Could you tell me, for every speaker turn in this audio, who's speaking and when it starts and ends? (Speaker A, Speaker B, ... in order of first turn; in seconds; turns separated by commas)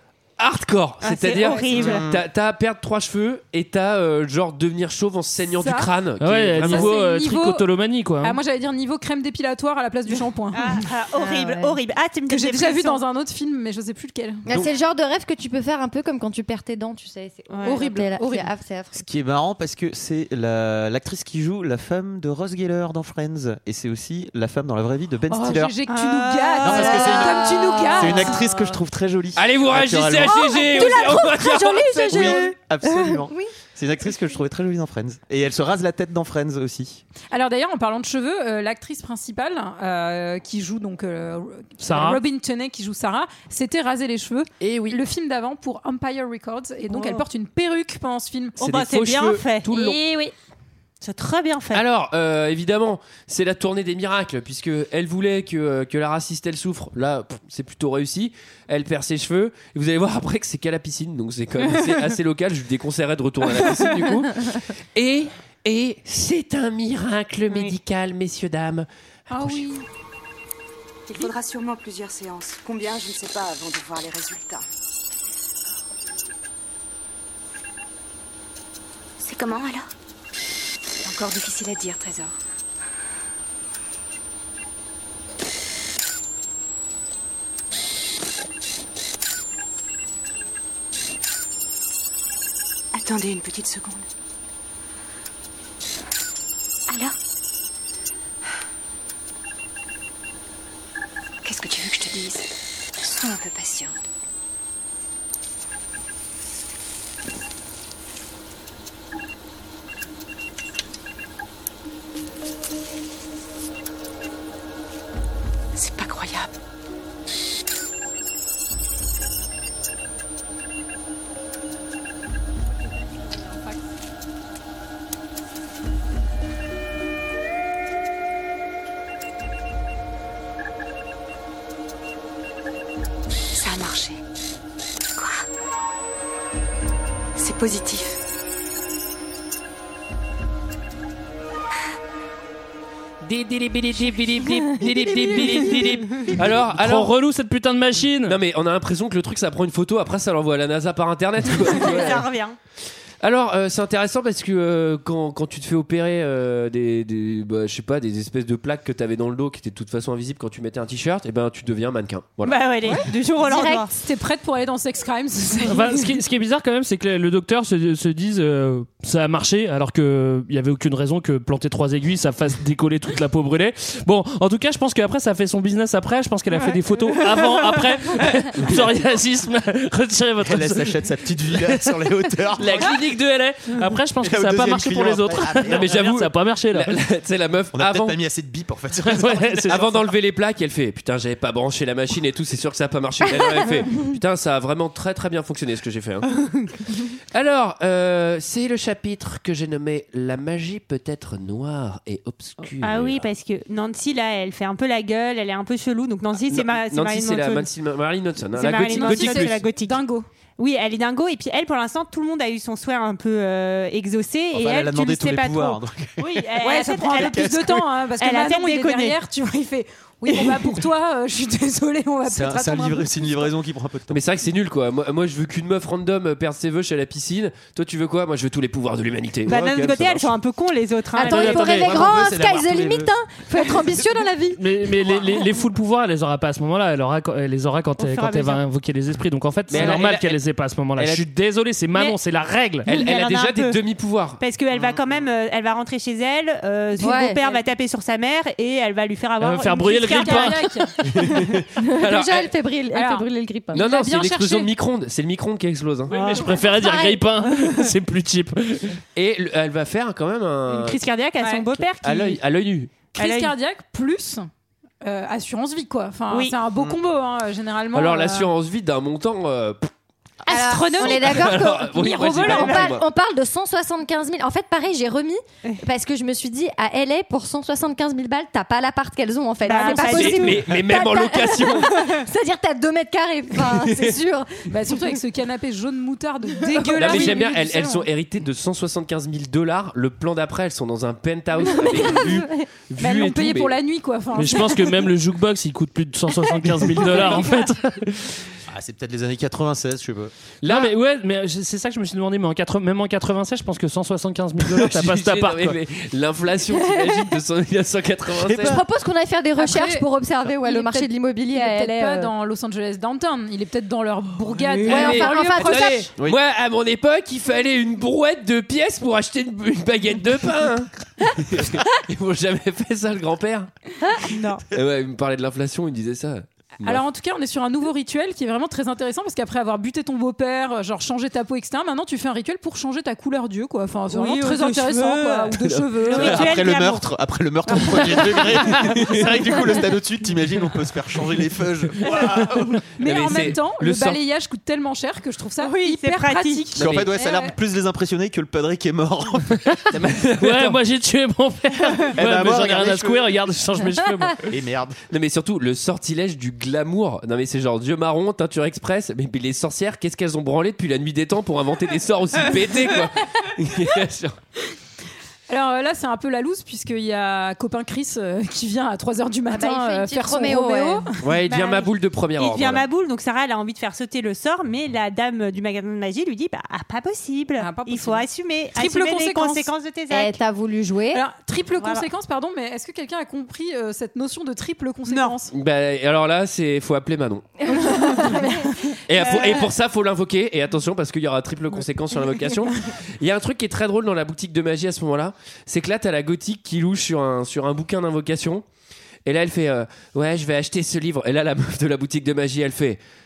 Speaker A: 0.4-6.9, Speaker B: 1.0-2.1, Speaker C: 1.7-2.2, Speaker D: 5.5-5.9, Speaker E: 6.2-8.4, Speaker D: 6.6-7.7, Speaker D: 8.2-10.8, Speaker B: 10.5-13.0, Speaker F: 11.2-11.8, Speaker D: 12.3-14.4, Speaker F: 14.5-18.9, Speaker B: 17.5-17.8, Speaker D: 17.6-18.5, Speaker C: 18.9-25.8, Speaker D: 25.3-28.5, Speaker B: 25.9-28.0, Speaker C: 26.6-30.4, Speaker F: 27.0-28.3, Speaker A: 29.4-32.4, Speaker F: 30.2-33.5, Speaker C: 32.1-37.0, Speaker D: 37.3-48.6, Speaker E: 41.8-42.2, Speaker A: 44.6-45.0, Speaker B: 46.9-47.2, Speaker A: 48.6-50.0, Speaker B: 48.6-49.9, Speaker D: 49.9-50.3, Speaker B: 51.0-51.8, Speaker A: 51.7-69.7, Speaker B: 67.5-67.8, Speaker D: 69.3-69.8, Speaker G: 71.1-74.6, Speaker G: 79.2-79.9, Speaker G: 81.0-82.3, Speaker G: 92.9-94.1, Speaker G: 96.9-97.2, Speaker G: 101.4-104.0, Speaker G: 115.8-116.5, Speaker G: 133.5-134.2, Speaker G: 137.4-138.2, Speaker A: 143.2-147.1, Speaker E: 146.7-148.4, Speaker A: 148.3-152.3, Speaker B: 151.6-152.6, Speaker A: 153.2-162.6, Speaker B: 162.4-163.9, Speaker F: 163.5-163.8, Speaker D: 163.9-166.2, Speaker E: 165.6-181.0, Speaker C: 180.4-182.9, Speaker E: 182.6-187.0, Speaker A: 182.6-183.2, Speaker C: 184.2-186.1, Speaker A: 185.7-188.2, Speaker C: 187.7-190.1, Speaker E: 189.1-189.8, Speaker A: 189.7-196.4, Speaker A: 197.3-203.3, Speaker B: 202.8-207.7, Speaker A: 206.5-209.6, Speaker B: 208.6-210.0, Speaker D: 208.8-210.3, Speaker B: 210.6-217.5, Speaker C: 214.5-217.9, Speaker D: 216.6-223.5, Speaker B: 218.2-219.2, Speaker B: 220.3-220.7, Speaker C: 222.3-224.2, Speaker A: 224.1-229.6, Speaker B: 229.5-232.1, Speaker C: 229.5-230.3, Speaker F: 231.1-234.6, Speaker C: 231.3-233.1, Speaker E: 234.6-242.9, Speaker B: 238.0-238.6, Speaker A: 239.7-240.4, Speaker A: 241.0-241.2, Speaker B: 242.8-243.8, Speaker A: 242.8-244.4, Speaker B: 244.4-250.6, Speaker C: 244.7-245.2, Speaker F: 247.0-247.5, Speaker E: 249.4-250.7, Speaker D: 249.8-251.2, Speaker F: 251.8-253.9, Speaker A: 252.0-252.5, Speaker D: 252.9-254.7, Speaker A: 253.7-256.2, Speaker E: 256.1-259.0, Speaker B: 256.1-256.8, Speaker F: 256.7-257.3, Speaker A: 259.1-261.0, Speaker B: 260.7-262.4, Speaker D: 261.4-261.7, Speaker A: 262.0-262.9, Speaker D: 263.2-264.5, Speaker B: 263.2-263.6, Speaker D: 265.0-268.5, Speaker B: 266.3-266.6, Speaker A: 267.9-269.9, Speaker F: 270.5-285.2, Speaker B: 270.5-271.5, Speaker D: 270.7-271.1, Speaker A: 271.0-273.1, Speaker D: 272.0-272.8, Speaker B: 272.5-272.9, Speaker B: 279.6-280.6, Speaker D: 279.8-280.2, Speaker A: 280.1-282.2, Speaker A: 283.8-284.2, Speaker D: 284.7-288.1, Speaker F: 286.6-287.2, Speaker A: 286.9-293.8, Speaker F: 291.7-292.7, Speaker D: 291.8-292.4, Speaker D: 293.0-295.1, Speaker E: 294.4-298.4, Speaker D: 296.9-297.5, Speaker C: 298.7-300.3, Speaker A: 300.6-300.9, Speaker E: 300.6-305.8, Speaker A: 304.7-308.8, Speaker C: 308.4-308.8, Speaker F: 308.6-312.3, Speaker D: 309.6-310.1, Speaker D: 310.6-316.1, Speaker A: 314.7-323.7, Speaker F: 314.9-316.1, Speaker B: 324.2-324.6, Speaker A: 324.7-327.0, Speaker D: 326.8-336.6, Speaker B: 334.1-337.1, Speaker A: 335.7-336.4, Speaker C: 336.2-342.8, Speaker B: 337.7-338.5, Speaker A: 338.9-339.2, Speaker D: 343.0-347.5, Speaker A: 343.0-344.2, Speaker B: 345.6-346.8, Speaker C: 346.8-349.8, Speaker A: 346.8-347.1, Speaker A: 349.9-350.8, Speaker E: 350.4-354.4, Speaker C: 352.1-353.3, Speaker C: 354.4-355.0, Speaker A: 355.1-364.4, Speaker D: 365.5-371.2, Speaker F: 369.5-371.1, Speaker A: 371.2-372.9, Speaker B: 371.5-380.4, Speaker D: 377.6-379.7, Speaker F: 380.1-381.2, Speaker D: 381.1-385.5, Speaker B: 381.8-382.1, Speaker B: 385.1-385.3, Speaker A: 385.5-387.5, Speaker F: 387.6-388.7, Speaker D: 387.7-389.0, Speaker A: 389.1-398.6, Speaker B: 389.2-389.7, Speaker A: 399.2-403.0